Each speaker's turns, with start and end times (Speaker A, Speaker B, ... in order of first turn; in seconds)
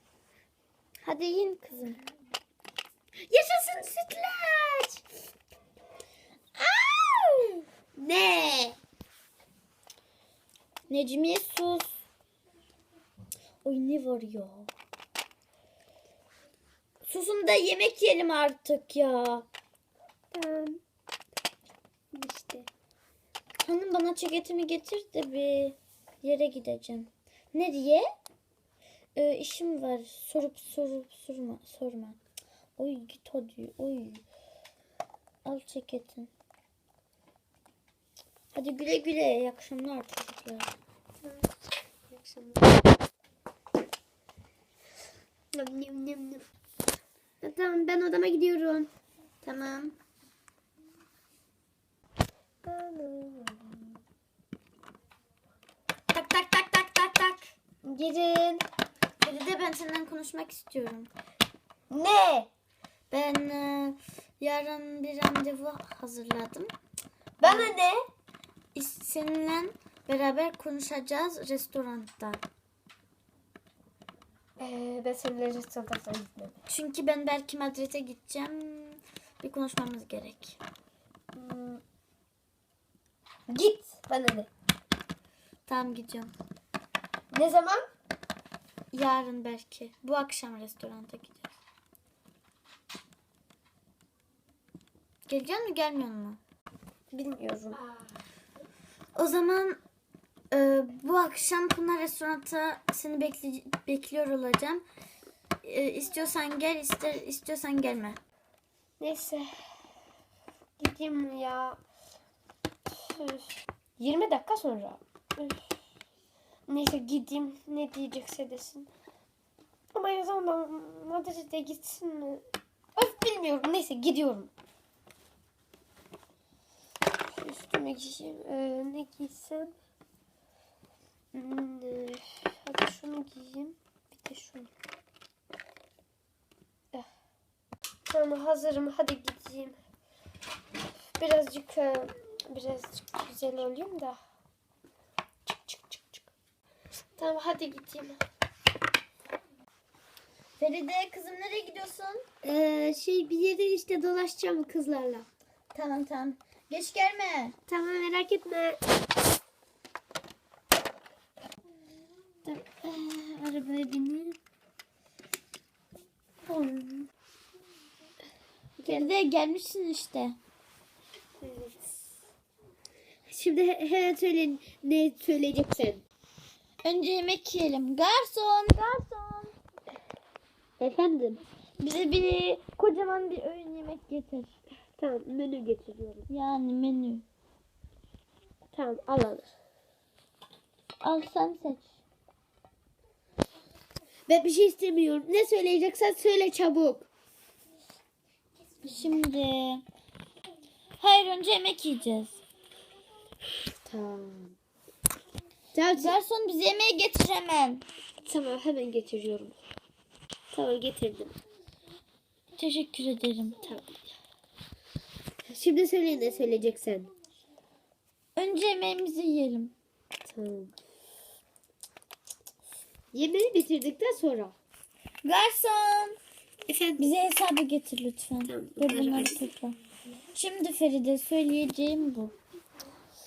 Speaker A: 1.0-2.0, 10.9-11.9, 13.6-14.7, 17.1-19.4, 23.6-28.0, 29.1-32.2, 32.8-34.2, 35.4-36.3, 38.5-40.7, 49.4-49.9, 56.1-57.5, 59.2-61.1, 63.1-66.7, 67.4-67.7, 68.7-72.4, 76.7-80.6, 85.7-86.3, 88.9-91.5, 95.3-96.4, 99.1-99.8, 100.5-104.8, 105.6-108.2, 150.6-152.2, 155.7-157.6, 168.8-170.4, 176.8-179.5, 181.8-184.5, 186.3-187.2, 191.0-191.8, 198.8-199.8, 201.0-202.4, 205.9-207.8, 212.6-213.6, 218.3-219.7, 225.2-226.2, 227.0-229.8, 230.3-232.3
Speaker B: 3.3-5.0, 6.6-8.8, 20.3-20.8, 22.1-22.7, 41.2-41.5, 42.1-42.7, 45.5-46.4, 47.4-48.9, 52.6-54.0, 57.8-58.6, 61.9-62.5, 67.4-68.0, 74.6-76.5, 81.3-81.8, 83.5-84.5, 87.3-87.8, 97.1-97.8, 109.0-109.5, 110.8-111.8, 113.0-113.5, 114.0-115.5, 116.7-118.9, 119.9-122.4, 123.0-124.5, 127.4-129.7, 131.3-134.7, 138.1-139.8, 141.2-144.2, 145.5-146.2, 147.2-148.2, 152.4-155.2, 157.7-158.8, 162.4-164.4, 166.4-167.1, 168.8-169.1, 171.4-171.9, 173.3-176.0, 180.8-181.4, 185.0-186.3, 188.7-189.5, 194.3-197.1, 203.8-204.5, 205.7-206.1, 208.2-209.6, 210.5-211.4, 213.6-214.1, 215.4-217.1, 220.2-220.7, 223.1-224.5, 226.7-227.1, 228.4-229.5